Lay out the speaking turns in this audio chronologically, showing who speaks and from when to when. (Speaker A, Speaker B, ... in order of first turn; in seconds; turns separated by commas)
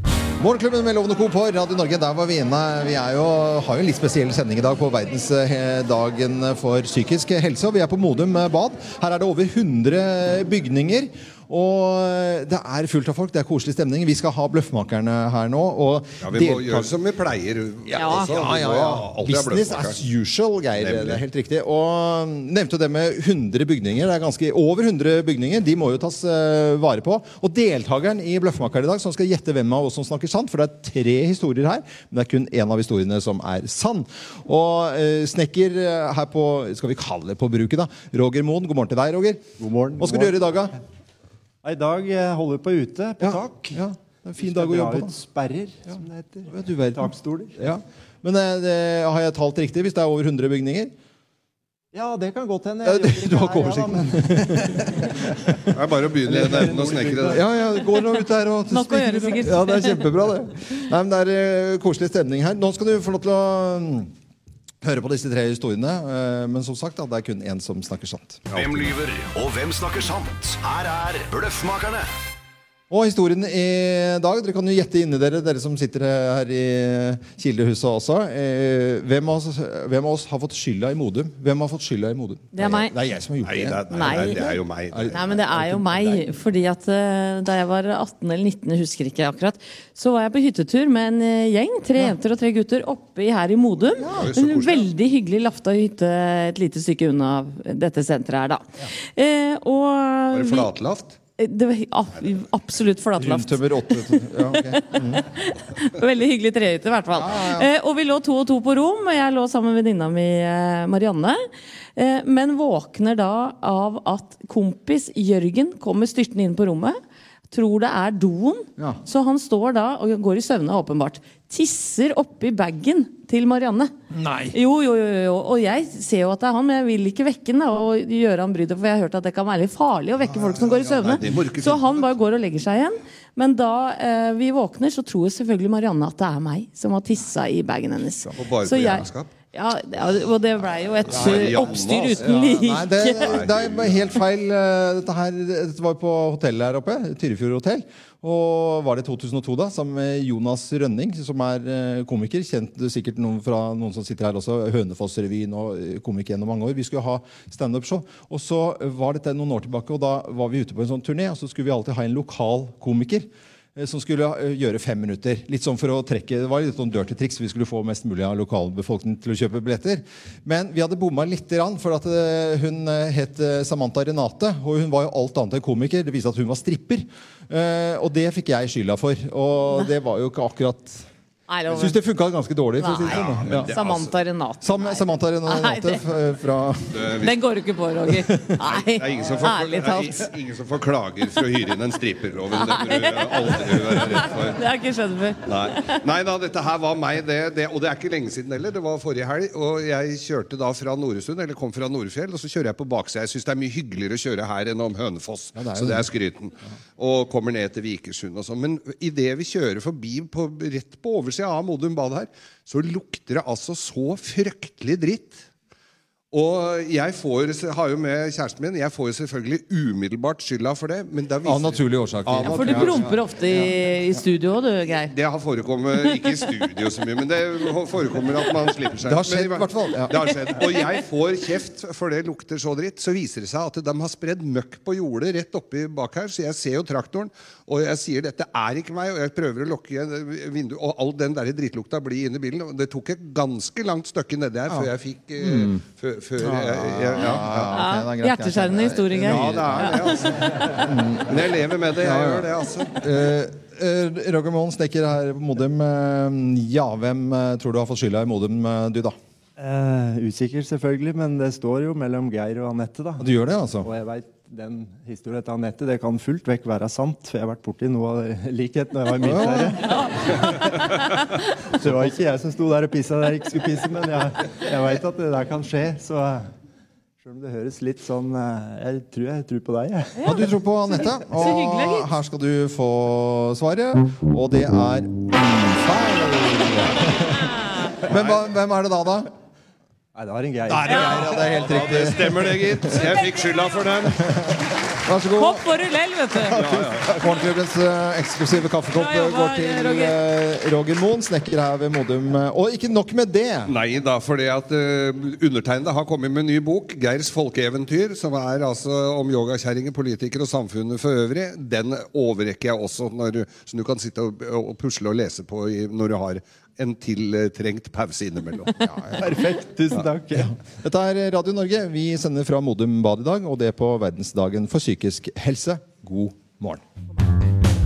Speaker A: 0.4-16.9, Speaker B: 16.2-20.0, Speaker A: 17.9-40.8, Speaker C: 17.9-18.3, Speaker B: 20.8-21.2, Speaker D: 39.6-40.5, Speaker D: 41.6-43.8, Speaker A: 43.2-45.2, Speaker D: 44.4-47.6, Speaker A: 45.9-50.9, Speaker D: 51.9-55.4, Speaker A: 52.8-55.1, Speaker B: 55.7-57.4, Speaker D: 56.2-57.4, Speaker A: 57.3-64.1, Speaker C: 58.7-60.0, Speaker A: 64.8-68.4, Speaker B: 68.5-68.9, Speaker E: 68.5-72.1, Speaker A: 72.9-84.4, Speaker C: 82.5-82.9, Speaker B: 83.4-85.4, Speaker C: 83.9-100.7, Speaker A: 84.9-86.2, Speaker B: 94.0-94.9, Speaker B: 100.3-101.1, Speaker C: 101.4-117.0, Speaker A: 103.2-105.2, Speaker A: 107.1-107.7, Speaker C: 117.5-123.9, Speaker A: 124.1-124.5, Speaker C: 124.5-143.3, Speaker A: 130.6-131.2, Speaker B: 131.0-132.1, Speaker B: 138.4-139.3, Speaker B: 141.1-142.2, Speaker A: 141.1-141.6, Speaker A: 142.2-181.1, Speaker B: 143.2-144.0, Speaker C: 181.5-182.0, Speaker A: 181.7-183.7, Speaker C: 182.8-186.0, Speaker B: 183.1-184.1, Speaker A: 184.6-187.2, Speaker B: 186.9-187.3, Speaker C: 187.2-190.3, Speaker A: 188.3-188.6, Speaker B: 188.8-194.6, Speaker C: 192.5-196.0, Speaker B: 195.5-215.4, Speaker A: 205.6-206.0, Speaker B: 216.3-223.7, Speaker A: 221.4-223.2, Speaker C: 222.4-225.1, Speaker B: 225.1-247.8, Speaker A: 229.1-230.1, Speaker A: 244.7-245.8, Speaker A: 246.4-250.1, Speaker C: 247.3-250.3, Speaker B: 249.2-253.0, Speaker A: 250.7-251.3, Speaker A: 251.9-259.1, Speaker D: 259.6-270.9, Speaker A: 263.2-263.9, Speaker A: 269.2-269.8, Speaker C: 269.9-270.1, Speaker D: 271.8-276.5, Speaker D: 277.2-280.4, Speaker C: 280.2-282.1, Speaker A: 280.2-289.3, Speaker D: 290.1-291.0, Speaker B: 290.7-294.2, Speaker A: 290.8-293.0, Speaker C: 292.9-293.7, Speaker A: 294.2-295.7, Speaker C: 295.4-296.6, Speaker A: 296.4-303.7, Speaker B: 296.4-297.4, Speaker C: 298.9-300.1, Speaker B: 303.7-318.8, Speaker A: 318.8-319.2, Speaker D: 319.1-320.5, Speaker A: 320.4-326.8